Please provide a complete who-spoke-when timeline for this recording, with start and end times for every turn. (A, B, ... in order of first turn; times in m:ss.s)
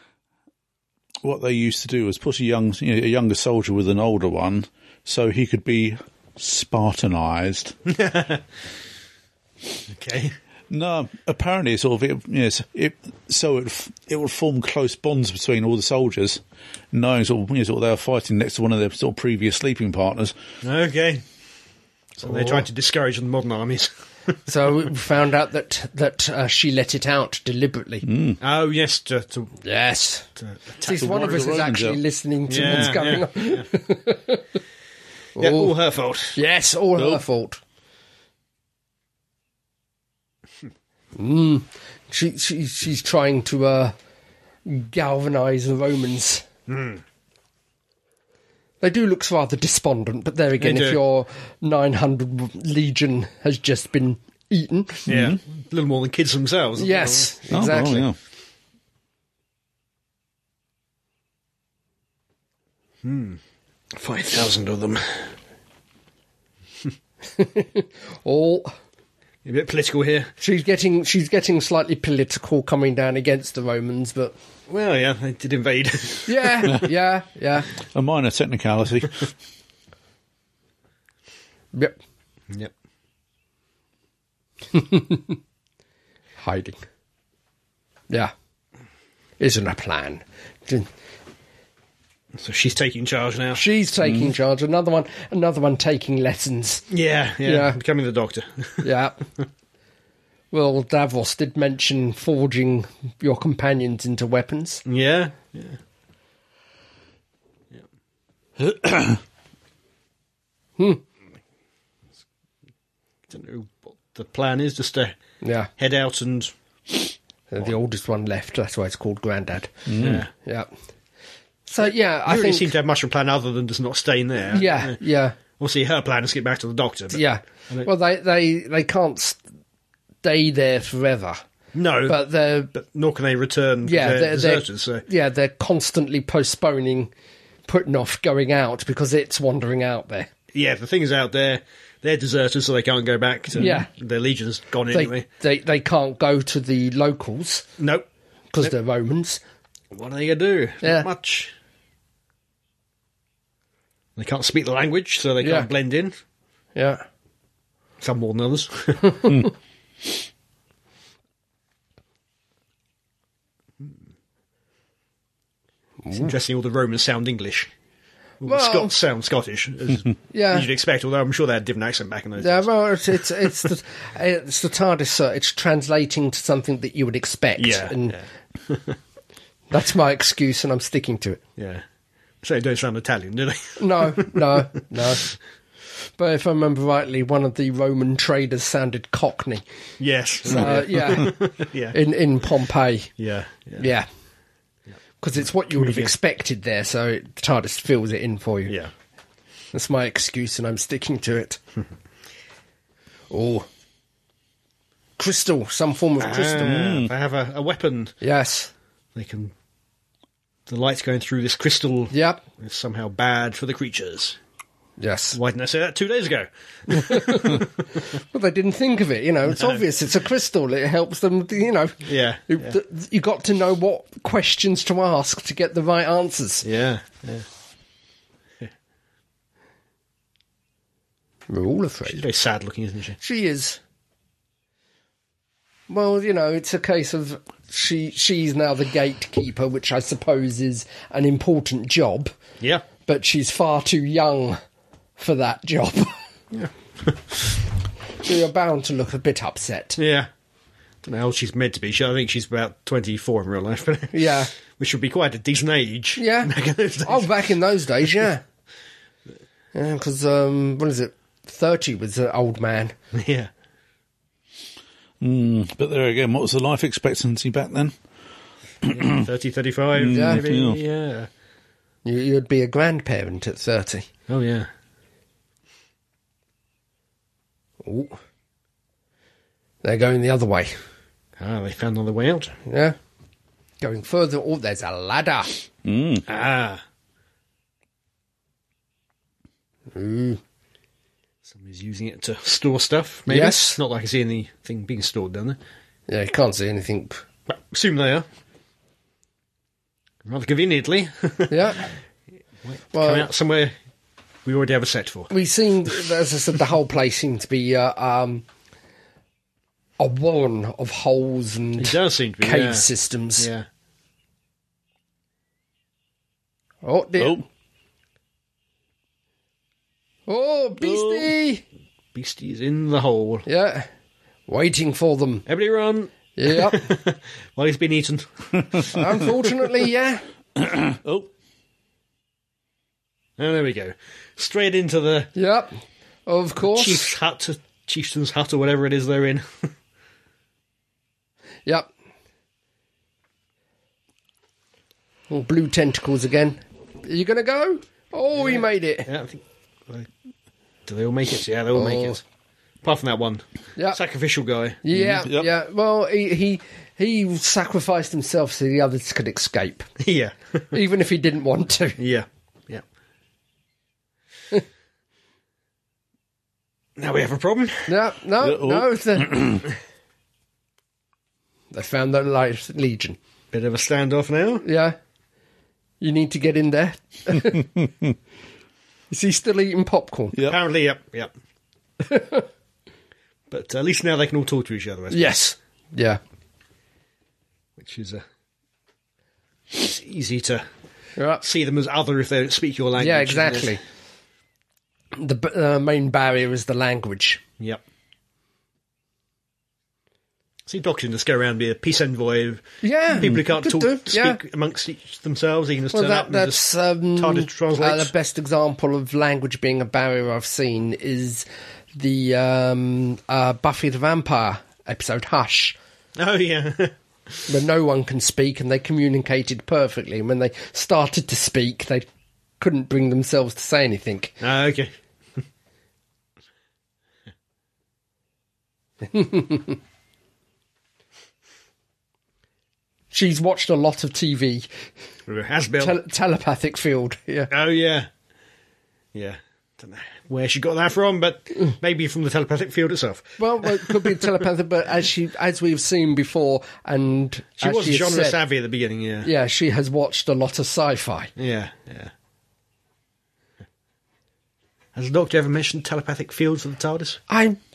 0:01.2-0:07.8 A
0:07.9-0:08.4 B
0:09.9-0:10.3 B
0:10.7-0:20.4 A
0:20.6-0:21.2 B
0:22.2-0:24.4 B
0:22.3-0:22.6 C
0:24.5-0:28.1 C
0:28.0-0:28.4 A
0:28.4-0:29.6 B
0:29.6-0:30.3 C
0:30.4-0:31.4 B
0:30.8-0:34.4 C
0:30.9-0:32.0 A
0:32.5-0:33.7 B
0:32.6-0:33.0 A
0:35.4-0:35.7 C
0:35.4-0:36.4 B
0:36.4-0:37.6 C
0:37.0-0:37.2 A
0:41.2-0:44.0 C
0:44.6-0:46.5 C
0:46.7-0:47.0 B
0:48.8-0:55.1 C
0:50.6-0:51.0 B
0:55.1-0:55.4 A
0:55.1-0:57.4 B
0:56.8-0:58.1 C
0:57.5-0:58.2 A
1:03.0-1:03.4 B
1:03.9-1:05.3 B
1:07.3-1:08.8 C
1:09.4-1:10.3 B
1:10.4-1:14.4 C
1:14.7-1:16.7 B
1:16.3-1:17.7 C
1:17.9-1:19.2 A
1:24.7-1:25.4 C
1:26.4-1:26.8 C
1:29.4-1:30.9 C
1:32.4-1:33.6 B
1:33.6-1:36.9 C
1:36.9-1:38.9 B
1:37.4-1:37.8 C
1:38.8-1:39.2 C
1:40.5-1:44.8 C
1:44.9-1:45.8 B
1:48.6-1:49.2 A
1:53.3-1:55.2 B
1:55.4-1:55.7 C
1:55.8-1:56.5 B
1:57.5-2:00.7 C
1:59.9-2:00.2 A
2:00.0-2:00.3 B
2:01.7-2:02.7 C
2:01.8-2:05.0 B
2:04.5-2:05.4 C
2:05.6-2:07.9 B
2:07.1-2:09.4 C
2:10.2-2:11.4 C
2:11.7-2:15.0 B
2:12.1-2:12.7 C
2:13.8-2:17.1 C
2:17.7-2:20.3 C
2:20.5-2:25.3 B
2:23.6-2:23.9 C
2:24.9-2:27.6 C
2:27.8-2:28.1 B
2:28.5-2:29.4 C
2:29.9-2:31.5 B
2:30.8-2:31.1 C
2:34.2-2:36.2 B
2:35.4-2:35.7 C
2:36.8-2:37.0 C
2:38.0-2:39.3 B
2:39.2-2:39.4 C
2:46.0-2:46.3 C
2:46.1-2:47.7 B
2:48.4-2:53.5 B
2:48.4-2:48.9 C
2:50.3-2:50.7 C
2:52.4-2:58.2 C
2:57.6-2:59.0 B
2:59.7-3:01.4 C
3:01.6-3:01.8 B
3:02.4-3:04.6 B
3:03.8-3:05.2 C
3:06.2-3:09.6 C
3:10.0-3:12.0 B
3:10.5-3:13.1 C
3:13.2-3:13.9 B
3:13.8-3:14.1 C
3:15.2-3:18.8 C
3:15.7-3:16.1 B
3:19.7-3:21.6 C
3:23.3-3:23.7 C
3:25.2-3:27.0 C
3:26.2-3:28.2 B
3:26.7-3:27.1 A
3:28.2-3:28.7 C
3:29.2-3:29.5 B
3:30.7-3:34.4 B
3:32.1-3:32.4 C
3:35.0-3:35.4 C
3:35.3-3:37.7 B
3:36.9-3:37.7 C
3:38.2-3:46.6 C
3:39.6-3:39.8 B
3:42.0-3:42.8 B
3:46.6-3:47.5 B
3:51.5-3:52.2 C
3:52.1-3:53.2 B
3:53.2-3:53.8 C
3:55.9-4:02.3 C
4:02.6-4:02.9 B
4:03.0-4:04.6 C
4:05.2-4:06.2 C
4:06.5-4:07.4 B
4:08.2-4:10.0 C
4:10.0-4:10.3 B
4:11.0-4:17.4 B
4:14.1-4:14.5 C
4:16.2-4:16.5 C
4:17.0-4:18.4 C
4:19.7-4:23.0 C
4:23.1-4:23.5 B
4:25.2-4:28.0 A
4:28.8-4:29.2 A
4:28.9-4:31.3 B
4:30.0-4:30.8 A
4:30.1-4:30.4 C
4:32.0-4:34.1 C
4:34.3-4:34.7 B
4:37.8-4:38.2 C
4:39.8-4:40.8 C
4:41.4-4:42.6 B
4:42.7-4:43.0 C
4:43.8-4:45.6 C
4:45.8-4:46.2 A
4:46.3-4:46.8 B
4:49.9-4:50.4 C
4:51.5-4:55.6 B
4:53.3-4:53.8 C
4:56.1-4:57.2 C
4:57.5-4:58.3 B
5:00.2-5:01.9 B
5:01.5-5:01.9 C
5:02.6-5:03.7 B
5:02.9-5:03.3 C
5:04.4-5:05.3 B
5:05.3-5:08.5 C
5:10.0-5:13.5 C
5:11.8-5:12.9 B
5:13.4-5:13.6 B
5:16.8-5:17.4 C
5:20.3-5:21.6 C
5:20.8-5:21.3 A
5:22.1-5:23.4 B
5:23.5-5:23.9 C
5:24.5-5:25.5 C
5:25.5-5:29.4 B
5:26.4-5:26.9 C
5:28.9-5:30.2 C
5:30.6-5:31.3 A
5:33.4-5:35.3 B
5:35.4-5:37.1 C
5:36.6-5:39.7 B
5:45.3-5:49.1 C
5:48.4-5:50.1 B
5:50.9-5:52.2 B
5:51.7-5:52.2 C
5:52.8-5:54.8 B
5:54.8-5:59.9 C
5:54.9-5:55.5 A
6:00.0-6:00.6 B
6:00.7-6:02.0 C
6:02.0-6:02.8 B
6:07.0-6:07.9 B
6:07.9-6:09.5 C
6:08.4-6:09.6 A
6:11.7-6:13.2 C
6:13.5-6:14.6 B
6:14.6-6:15.0 C
6:16.0-6:17.7 C
6:19.1-6:20.4 C
6:20.4-6:21.3 B
6:22.0-6:22.5 C
6:23.5-6:25.4 B
6:25.1-6:26.2 C
6:27.8-6:28.2 B
6:29.7-6:30.7 B
6:31.2-6:31.4 C
6:31.4-6:33.8 B
6:33.0-6:33.8 C
6:35.1-6:37.4 C
6:40.7-6:46.6 B
6:42.8-6:44.4 C
6:45.9-6:55.8 C
6:47.2-6:48.1 B
6:56.2-6:56.9 B
6:57.5-7:02.1 C
7:02.6-7:04.4 C
7:04.4-7:04.9 B
7:09.0-7:09.8 C
7:13.1-7:14.7 C
7:15.3-7:16.0 B
7:15.8-7:17.5 C
7:17.5-7:18.1 B
7:19.1-7:24.3 B
7:23.4-7:28.4 C
7:27.6-7:29.3 B
7:29.2-7:31.3 C
7:31.4-7:32.1 B
7:35.0-7:37.2 B
7:37.3-7:37.6 C